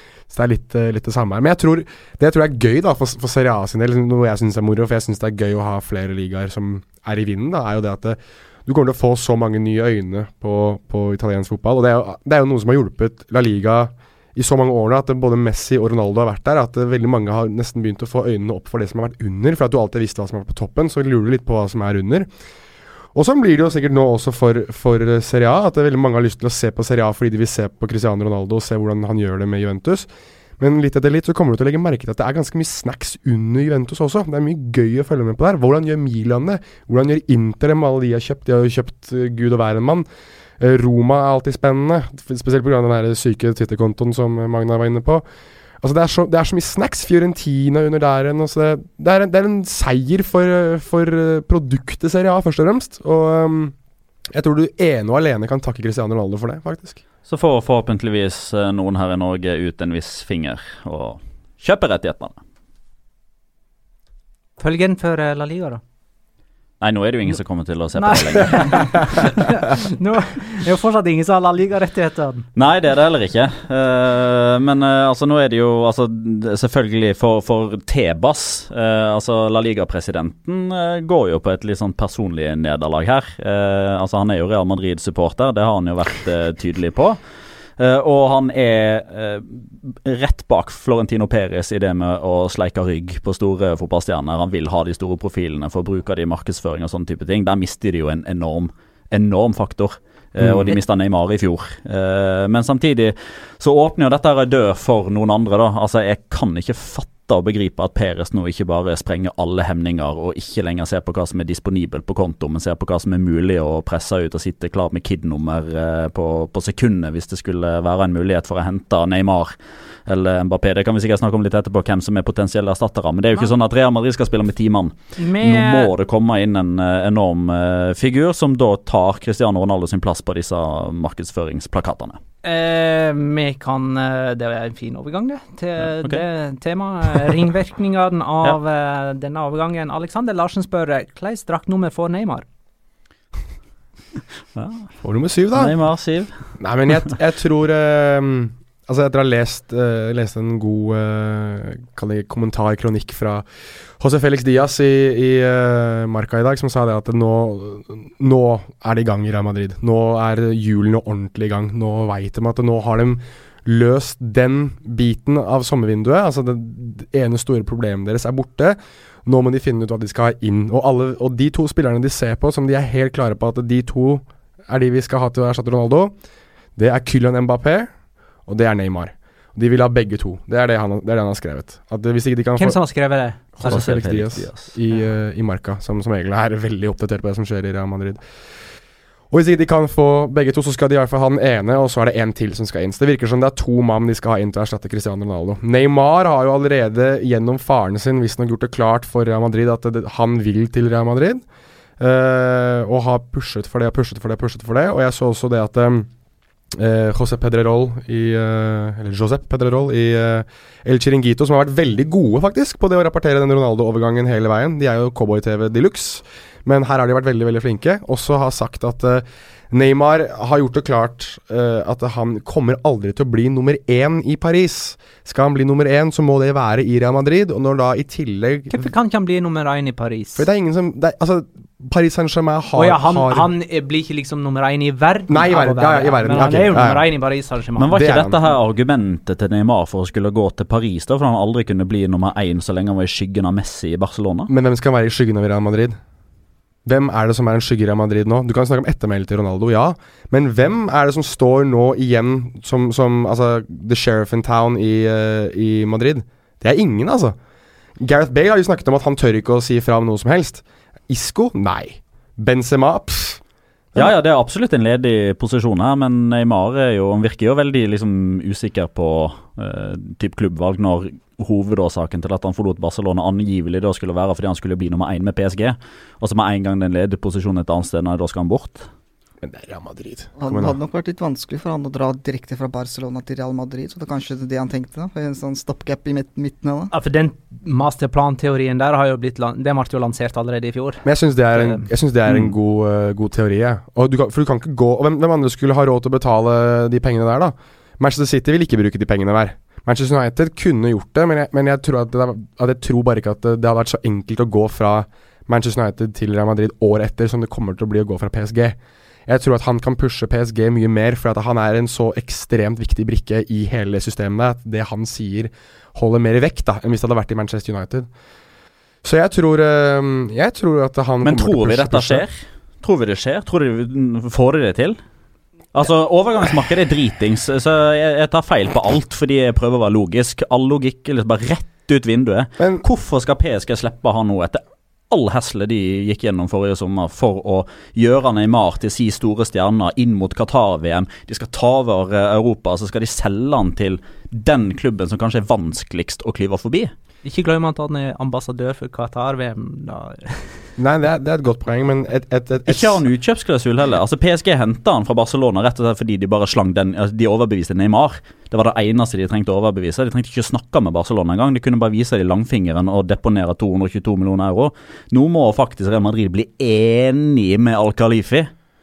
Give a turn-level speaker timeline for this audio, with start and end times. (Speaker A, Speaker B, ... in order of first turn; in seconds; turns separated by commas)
Speaker A: 0.3-22.3, Speaker A: 23.1-40.0, Speaker A: 40.6-45.2, Speaker A: 45.8-53.7, Speaker A: 54.3-57.0, Speaker B: 57.2-62.4, Speaker C: 64.6-65.8, Speaker B: 66.8-69.3, Speaker C: 68.0-72.5, Speaker B: 72.5-87.2, Speaker B: 87.8-119.5, Speaker A: 100.4-100.8, Speaker B: 120.1-132.2, Speaker C: 125.2-125.9, Speaker C: 132.4-142.4, Speaker B: 144.5-144.9, Speaker A: 145.0-145.8, Speaker B: 145.5-146.3, Speaker A: 146.6-176.1, Speaker A: 176.8-177.9, Speaker A: 178.4-182.8, Speaker C: 182.6-183.9, Speaker A: 183.6-188.2, Speaker B: 183.7-184.7, Speaker A: 189.3-201.4, Speaker A: 202.0-206.1, Speaker A: 206.7-228.8, Speaker C: 228.7-230.5, Speaker A: 230.3-233.5, Speaker C: 232.7-237.9, Speaker A: 235.3-237.1, Speaker B: 237.8-244.5, Speaker A: 237.9-238.3, Speaker A: 244.5-246.0, Speaker A: 246.8-257.4, Speaker A: 258.0-263.4, Speaker B: 263.9-278.9, Speaker A: 279.4-280.8, Speaker D: 280.4-286.9, Speaker C: 286.9-291.9, Speaker A: 291.0-318.1, Speaker A: 319.0-322.2, Speaker B: 321.2-325.0, Speaker B: 325.7-346.9, Speaker C: 347.2-350.7, Speaker A: 350.8-353.0, Speaker B: 352.6-368.5